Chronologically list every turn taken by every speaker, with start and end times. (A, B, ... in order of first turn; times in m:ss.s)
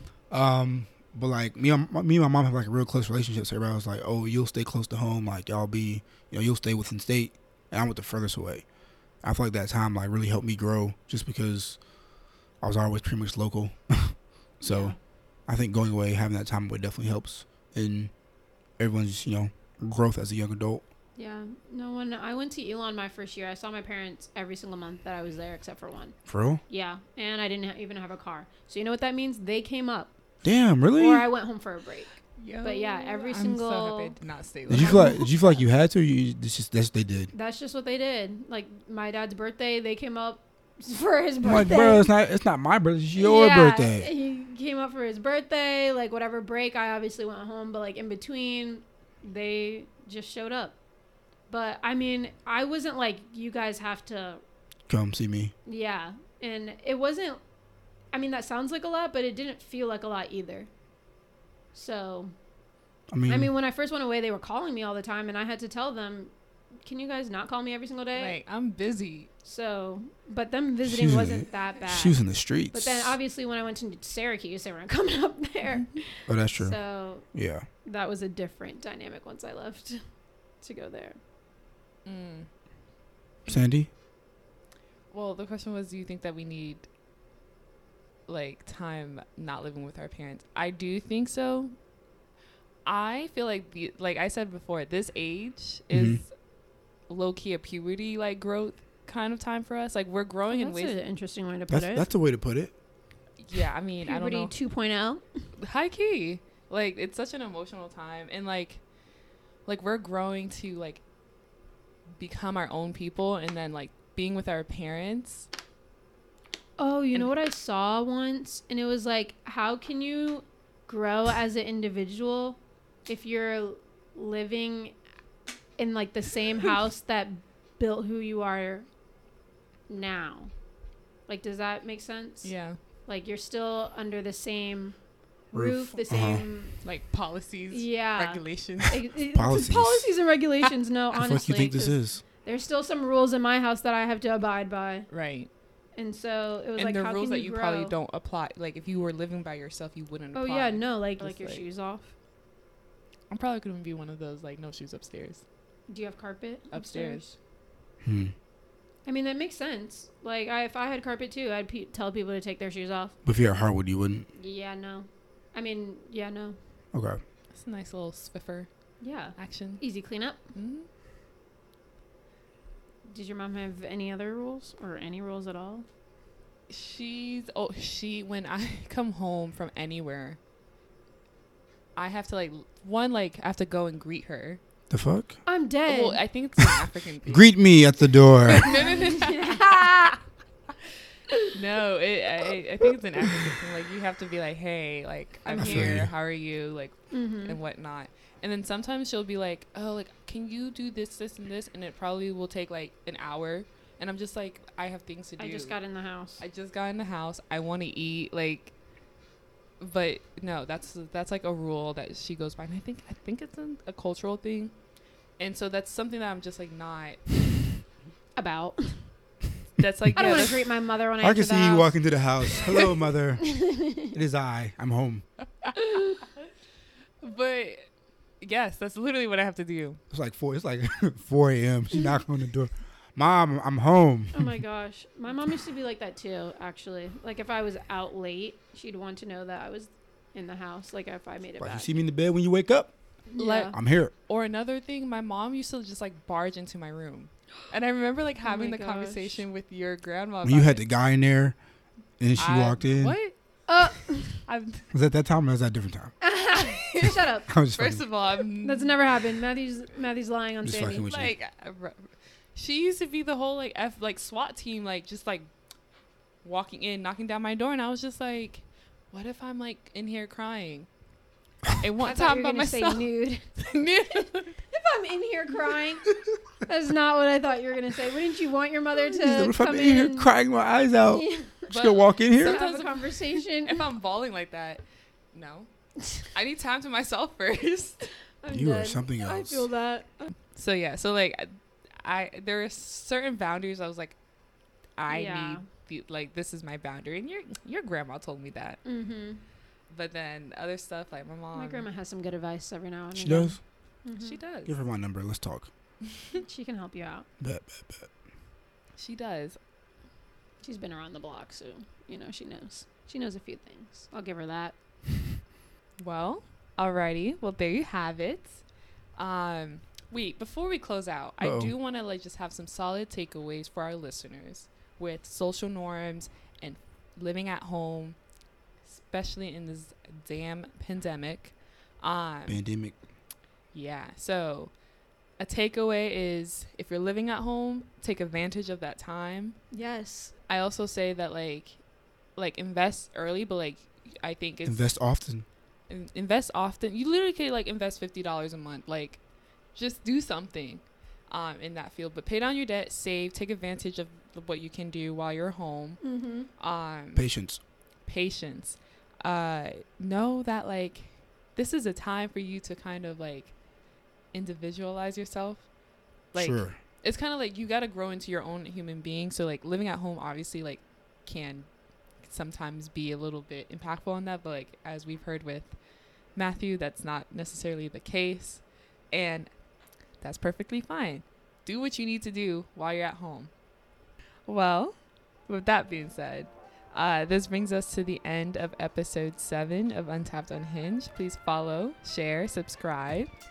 0:00.3-0:08.6 A
0:09.2-0:11.8 A
0:12.6-0:14.9 A
0:14.6-0:14.9 B
0:15.5-0:18.1 A
0:18.8-0:20.8 A
0:21.2-0:26.2 B
0:26.3-0:26.6 A
0:26.7-0:30.1 B
0:30.4-0:31.3 A
0:31.0-0:34.2 B
0:32.4-0:35.3 C
0:34.7-0:37.3 A
0:34.7-0:35.3 B
0:37.3-0:42.1 B
0:41.4-0:44.1 A
0:43.2-0:50.8 B
0:51.5-0:54.4 B
0:54.9-0:55.5 A
0:55.6-0:57.4 B
0:58.1-1:00.7 B
1:01.7-1:02.3 B
1:03.1-1:03.5 A
1:03.3-1:06.3 B
1:06.8-1:08.4 B
1:08.1-1:09.3 C
1:09.4-1:12.2 B
1:10.8-1:13.2 A
1:12.7-1:17.3 B
1:16.3-1:16.8 A
1:17.3-1:17.6 A
1:17.8-1:20.0 B
1:20.6-1:21.2 B
1:22.0-1:22.5 C
1:23.5-1:23.9 A
1:25.1-1:26.9 C
1:28.3-1:31.7 C
1:32.8-1:36.3 C
1:35.9-1:36.2 A
1:37.1-1:40.9 C
1:40.5-1:42.1 B
1:41.7-1:42.7 A
1:43.4-1:44.5 C
1:44.0-1:45.2 B
1:45.6-1:48.8 C
1:49.6-1:51.0 C
1:52.2-1:55.5 C
1:56.8-2:04.9 B
2:05.8-2:08.9 B
2:09.9-2:10.5 B
2:11.3-2:12.5 B
2:12.4-2:12.8 C
2:13.1-2:14.9 B
2:15.5-2:16.8 B
2:15.5-2:16.4 A
2:16.8-2:19.0 C
2:17.7-2:25.1 B
2:19.3-2:20.1 A
2:21.1-2:22.2 A
2:25.1-2:25.5 C
2:26.0-2:27.9 B
2:26.8-2:31.6 C
2:30.3-2:32.1 B
2:33.3-2:35.4 C
2:35.9-2:37.4 B
2:36.7-2:37.3 C
2:38.0-2:38.3 A
2:39.0-2:43.2 B
2:43.2-2:44.3 A
2:44.3-2:46.6 B
2:46.9-2:47.2 A
2:47.5-2:48.7 C
2:49.0-2:50.4 B
2:49.4-2:49.8 C
2:50.5-2:50.9 C
2:53.0-2:55.8 B
2:56.7-3:00.4 C
3:02.0-3:04.6 C
3:04.9-3:05.4 A
3:05.4-3:06.2 B
3:05.8-3:07.5 C
3:07.2-3:08.8 A
3:08.5-3:10.1 C
3:08.6-3:10.2 B
3:11.5-3:25.8 C
3:15.5-3:16.1 A
3:15.5-3:15.8 B
3:17.1-3:17.6 B
3:25.4-3:26.4 B
3:26.4-3:28.7 C
3:29.8-3:34.7 C
3:35.4-3:37.3 C
3:38.4-3:39.1 B
3:39.8-3:40.7 C
3:40.1-3:44.1 B
3:41.2-3:45.2 A
3:45.8-3:46.2 B
3:47.2-3:47.9 C
3:48.4-3:50.0 C
3:50.1-3:54.6 A
3:54.3-4:01.9 B
4:01.6-4:02.9 A
4:03.3-4:03.8 B
4:03.4-4:10.8 C
4:03.7-4:04.1 A
4:08.4-4:09.4 B
4:10.4-4:11.6 A
4:12.2-4:13.2 A
4:12.4-4:13.9 C
4:13.7-4:14.4 B
4:14.4-4:14.9 C
4:14.9-4:16.1 A
4:16.2-4:17.5 B
4:16.5-4:19.0 C
4:17.5-4:18.0 A
4:18.6-4:21.0 B
4:20.6-4:21.3 A
4:20.9-4:25.5 C
4:26.4-4:30.9 C
4:31.8-4:34.6 C
4:32.0-4:33.4 B
4:34.2-4:36.1 B
4:36.6-4:40.3 B
4:39.2-4:42.6 A
4:41.1-4:41.7 B
4:41.7-4:45.7 C
4:42.4-4:43.8 B
4:46.2-4:48.1 C
4:48.4-4:50.3 B
4:48.5-4:49.7 A
4:50.4-4:54.2 C
4:55.0-4:58.8 C
4:55.1-4:55.6 B
4:58.8-4:59.4 B
4:59.9-5:01.8 C
5:01.5-5:04.4 B
5:03.1-5:03.6 A
5:04.2-5:04.8 C
5:04.6-5:05.7 A
5:06.4-5:07.2 B
5:07.4-5:08.1 A
5:09.0-5:09.6 C
5:10.6-5:14.7 B
5:16.0-5:18.6 C
5:19.2-5:28.2 C
5:21.4-5:21.7 A
5:28.8-5:32.6 C
5:32.5-5:32.9 A
5:33.7-5:34.7 C
5:35.4-5:39.6 C
5:39.7-5:40.3 B
5:40.5-5:41.8 C
5:42.4-5:45.0 C
5:44.6-5:45.4 A
5:45.9-5:49.2 C
5:49.7-5:56.0 C
5:56.0-5:56.5 B
5:56.6-5:57.3 C
5:57.2-5:57.6 A
5:58.0-6:03.5 C
6:04.3-6:05.7 C
6:06.3-6:11.7 C
6:06.3-6:06.8 A
6:12.2-6:15.8 C
6:16.4-6:19.5 C
6:20.2-6:23.5 C
6:24.5-6:25.0 C
6:25.5-6:33.3 C